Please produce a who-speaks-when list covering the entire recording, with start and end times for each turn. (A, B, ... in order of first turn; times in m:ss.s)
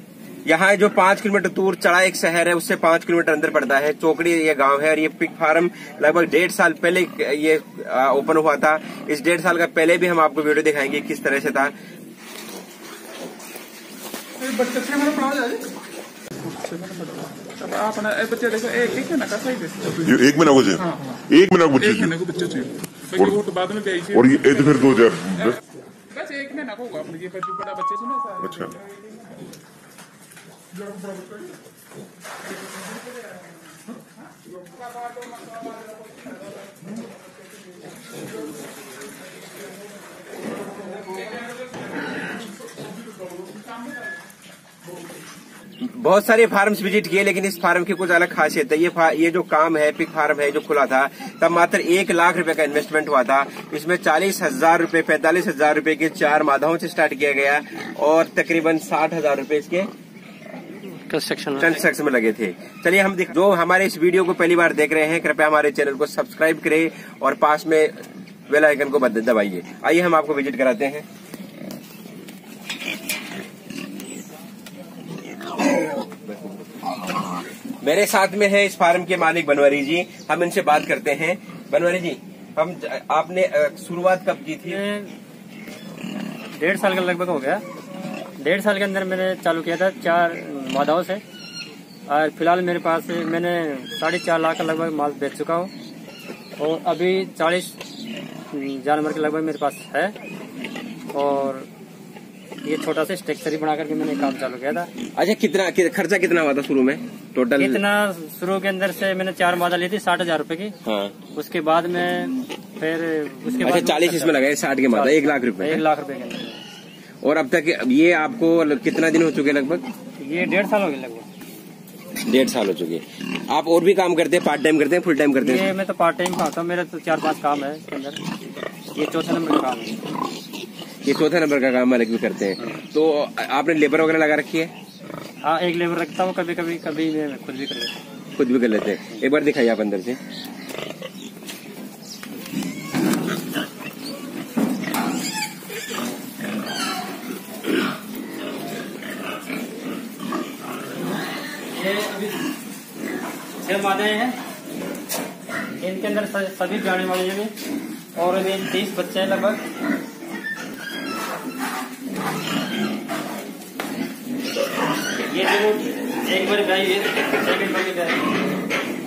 0:00.4-0:11.7 A
0:14.4-0:15.7 B
0:16.4-0:20.2 B
0:19.9-0:22.1 C
0:20.8-0:21.2 B
0:21.8-0:24.9 B
0:23.2-0:23.4 C
0:24.1-0:25.6 C
0:26.1-0:28.8 B
0:28.4-0:28.7 C
0:34.9-0:35.8 B
0:43.2-0:43.8 B
0:45.8-0:59.9 A
1:01.0-1:01.8 D
1:01.5-1:11.0 A
1:17.8-1:24.8 A
1:24.6-1:25.1 D
1:26.6-1:27.6 D
1:28.4-1:31.2 D
1:32.1-1:35.7 D
1:36.6-1:37.8 D
1:38.5-1:40.2 D
1:41.1-1:41.7 D
1:42.6-1:44.9 D
1:45.1-1:47.8 A
1:47.6-1:50.8 D
1:50.8-1:51.2 A
1:51.3-1:56.6 D
1:53.6-1:55.8 A
1:57.2-1:59.9 A
2:00.2-2:01.3 D
2:02.3-2:05.7 A
2:05.4-2:08.2 D
2:08.9-2:10.0 D
2:11.0-2:14.7 A
2:15.4-2:17.9 D
2:18.4-2:20.2 A
2:31.7-2:32.4 D
2:33.6-2:34.4 D
2:35.8-2:37.5 D
2:38.2-2:39.6 D
2:45.3-2:48.3 D